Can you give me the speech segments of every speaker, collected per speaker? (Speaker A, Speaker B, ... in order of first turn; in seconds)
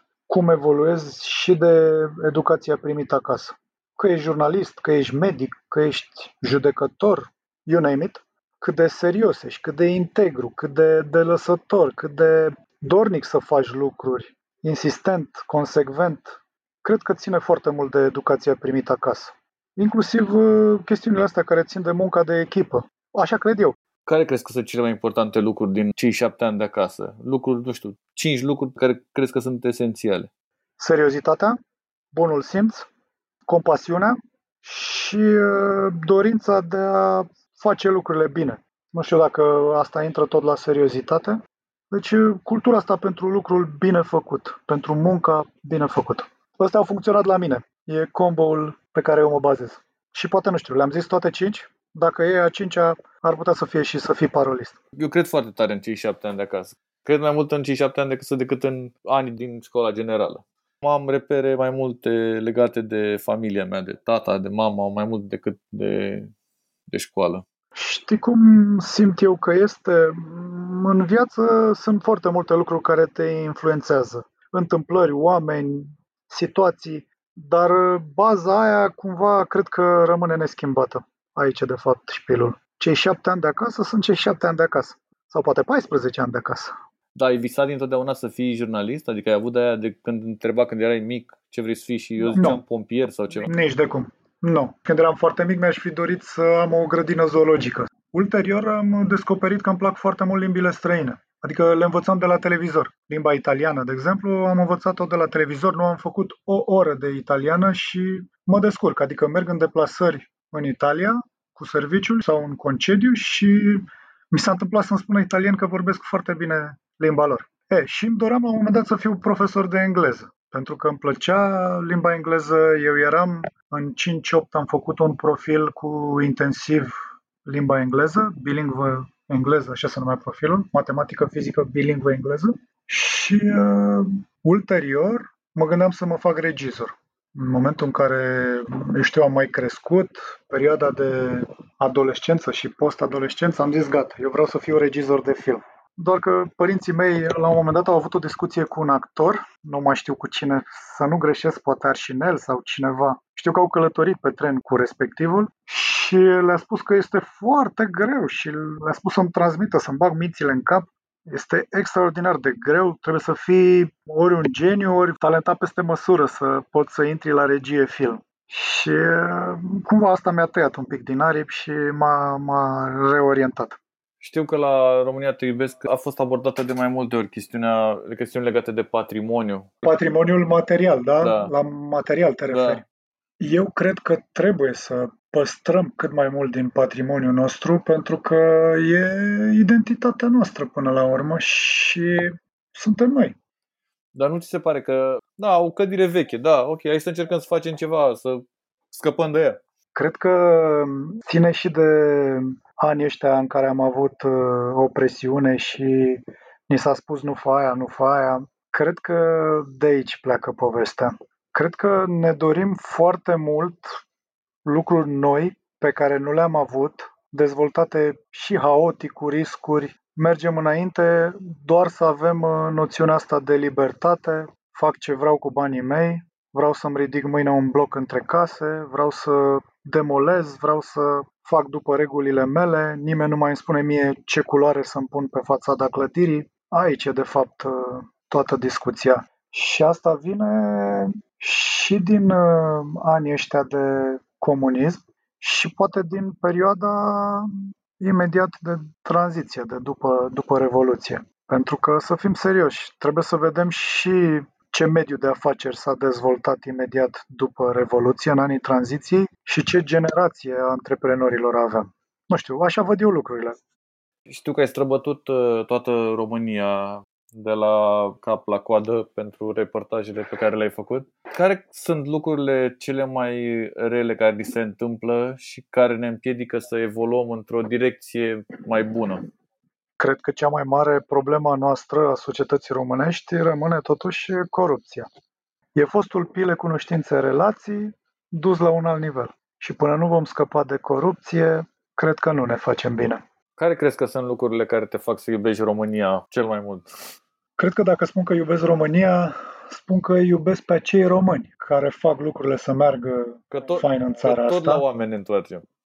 Speaker A: 0.3-23.8, 30.8-31.6, 32.1-32.9, 33.5-54.8, 67.8-86.8, 92.3-92.6, 93.4-173.8, 179.8-182.8, 183.4-193.4, 199.9-214.0, 214.7-263.6, 280.0-285.1, 285.8-293.2, 297.6-304.8
Speaker B: 24.1-30.3, 55.0-66.3, 66.9-67.4, 87.2-93.5, 174.2-179.8, 181.2-181.5, 182.5-182.8, 194.2-199.6, 264.3-279.3, 293.6-297.1, 303.5-305.6